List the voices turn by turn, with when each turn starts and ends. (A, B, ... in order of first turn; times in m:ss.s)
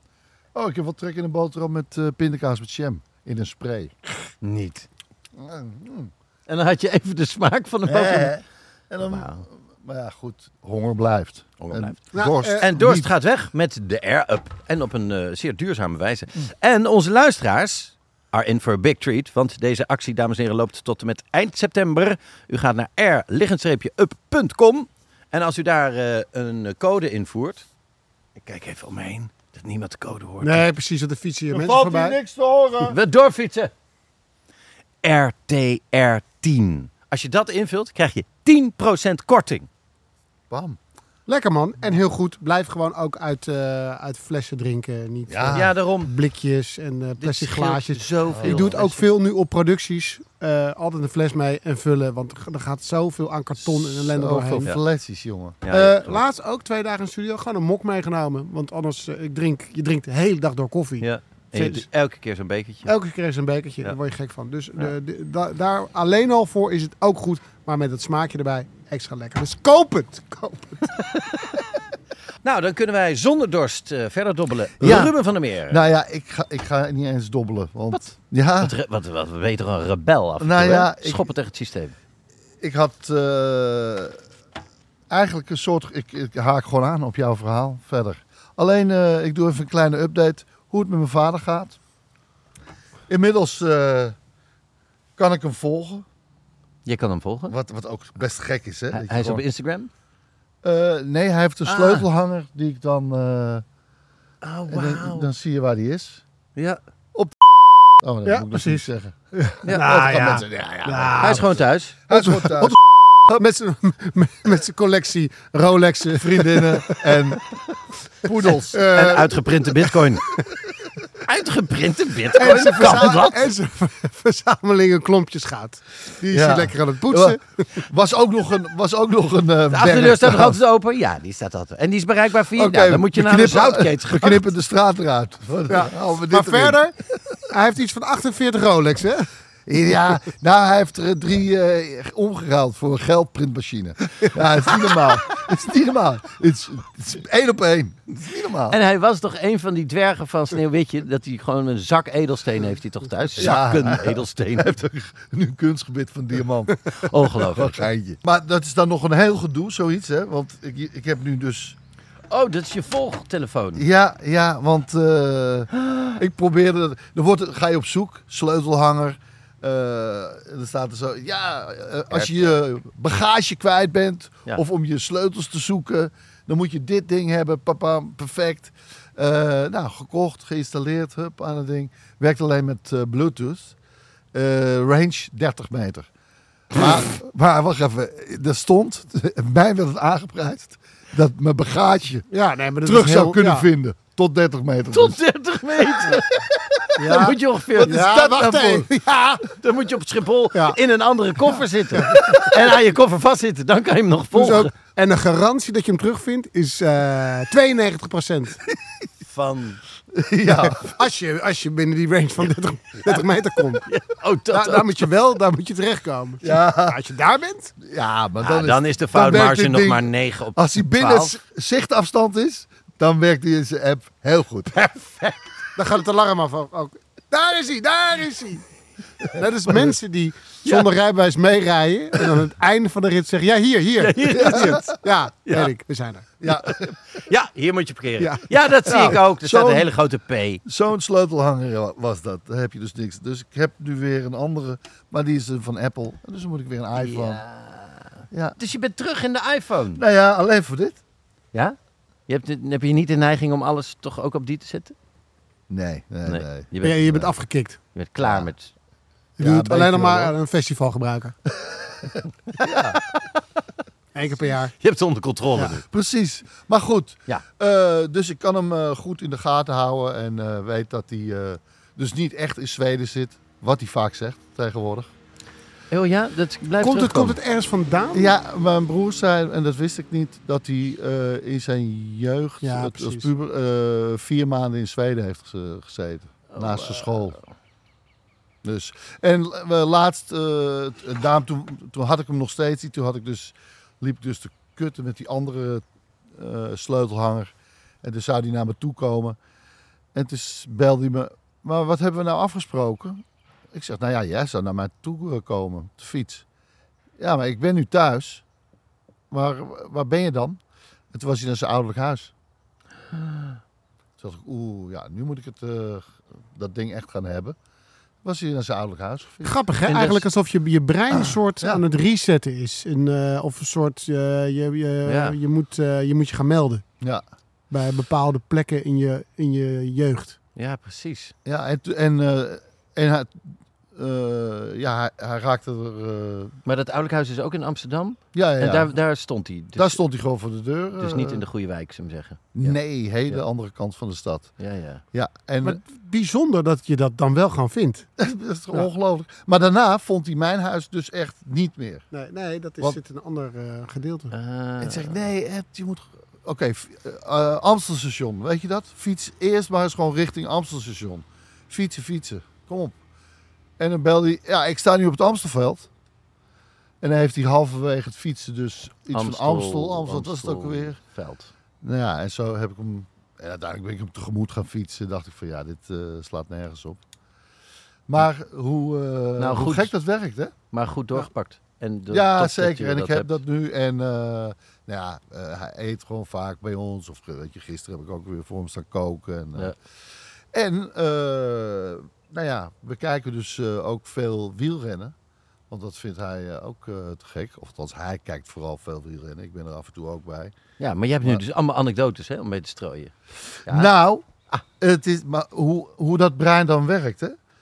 0:00.6-0:04.0 A
0:04.4-0:04.9 B
0:05.4-0:06.1 A
0:06.5-0:08.4 B
0:07.9-0:13.1 A
0:09.0-0:09.4 B
0:11.6-0:27.7 B
0:12.1-0:12.6 C
0:28.4-0:30.6 B
0:30.4-0:32.2 C
0:31.5-0:33.0 A
0:32.8-0:33.7 B
0:35.0-0:39.7 B
0:40.5-0:40.8 A
0:41.3-0:54.7 C
0:45.3-0:45.7 A
0:45.5-0:46.1 B
0:47.2-0:49.1 B
0:48.3-0:48.8 A
0:54.0-0:55.6 A
0:55.6-0:56.2 B
0:55.7-1:01.9 C
1:01.0-1:03.0 B
1:02.9-1:11.0 C
1:12.4-1:15.8 B
1:14.8-1:15.2 A
1:15.7-1:18.8 A
1:17.9-1:22.0 B
1:20.4-1:21.3 A
1:22.6-1:24.2 A
1:25.1-1:31.8 A
1:33.1-1:34.2 A
1:35.2-1:36.1 A
1:36.8-1:37.6 B
1:37.5-1:39.4 A
1:38.9-1:39.9 B
1:40.6-1:43.6 A
1:41.6-1:42.1 B
1:44.4-1:45.3 B
1:44.7-1:46.2 A
1:47.1-1:49.1 A
1:48.3-1:51.5 C
1:49.7-1:52.8 A
1:51.2-1:52.0 B
1:52.1-1:57.3 C
1:56.2-1:57.4 A
1:58.2-1:59.1 A
1:58.5-2:00.4 C
1:58.9-2:00.4 B
2:01.2-2:03.5 B
2:02.3-2:07.4 C
2:02.8-2:03.1 A
2:06.3-2:10.6 A
2:09.7-2:14.5 B
2:12.5-2:16.8 A
2:15.7-2:19.3 C
2:19.7-2:28.8 A
2:28.7-2:34.8 B
2:33.4-2:41.8 A
2:37.0-2:37.8 B
2:42.3-2:43.8 B
2:43.8-3:03.8 A
2:45.8-2:46.1 B
2:52.1-2:52.4 B
3:04.3-3:06.1 A
3:06.7-3:12.3 A
3:12.3-3:13.7 C
3:12.8-3:15.2 A
3:14.9-3:16.4 B
3:16.1-3:18.9 A
3:17.0-3:18.0 B
3:17.0-3:19.5 C
3:19.6-3:24.7 B
3:21.9-3:22.6 C
3:24.3-3:28.6 C
3:29.2-3:29.8 B
3:30.1-3:31.0 A
3:30.6-3:33.8 C
3:33.9-3:35.1 B
3:34.5-3:37.7 C
3:36.4-3:37.0 A
3:37.8-3:44.9 A
3:38.4-3:41.4 B
3:44.8-3:45.4 B
3:45.8-3:48.6 C
3:49.2-3:56.3 C
3:50.6-3:50.9 B
3:54.0-3:54.9 B
3:54.3-3:54.9 A
3:55.4-3:55.7 B
3:56.4-3:57.0 A
3:56.7-4:00.6 B
3:58.2-3:59.2 C
3:59.3-3:59.9 A
4:00.6-4:07.4 A
4:07.0-4:10.0 B
4:08.3-4:08.6 A
4:10.0-4:11.0 A
4:12.3-4:15.0 B
4:15.7-4:16.7 A
4:16.3-4:17.4 B
4:16.8-4:17.8 C
4:17.9-4:18.7 B
4:18.2-4:18.5 A
4:19.4-4:20.3 A
4:19.4-4:21.4 C
4:21.6-4:23.0 A
4:22.9-4:23.2 B
4:24.1-4:24.7 C
4:24.8-4:25.8 B
4:25.7-4:35.1 A
4:35.9-4:37.4 B
4:36.8-4:38.3 C
4:38.1-4:47.4 A
4:42.6-4:43.3 C
4:46.5-4:47.4 B
4:48.6-4:59.4 A
5:00.1-5:06.4 A
5:07.2-5:08.4 A
5:09.3-5:10.6 A
5:11.1-5:12.3 A
5:14.2-5:17.6 A
5:18.2-5:19.5 A
5:19.4-5:26.8 C
5:19.9-5:20.2 B
5:21.1-5:21.8 A
5:25.0-5:25.4 B
5:27.7-5:30.4 C
5:30.6-5:31.3 B
5:31.4-5:36.6 A
5:36.6-5:40.0 B
5:38.3-5:38.9 A
5:39.8-5:41.4 A
5:41.0-5:42.7 B
5:42.6-5:44.5 A
5:44.6-5:45.0 B
5:45.1-5:45.8 A
5:45.6-5:48.1 C
5:48.2-5:52.1 A
5:52.1-5:54.3 C
5:54.3-5:55.2 B
5:54.8-6:03.0 A
6:03.8-6:05.9 A
6:07.0-6:11.0 A
6:09.1-6:11.5 B
6:11.8-6:17.0 A
6:18.1-6:20.6 A
6:19.4-6:19.9 B
6:20.7-6:23.4 B
6:22.1-6:29.7 A
6:30.5-6:35.2 A
6:35.7-6:40.6 A
6:40.8-6:43.9 B
6:43.7-6:47.4 A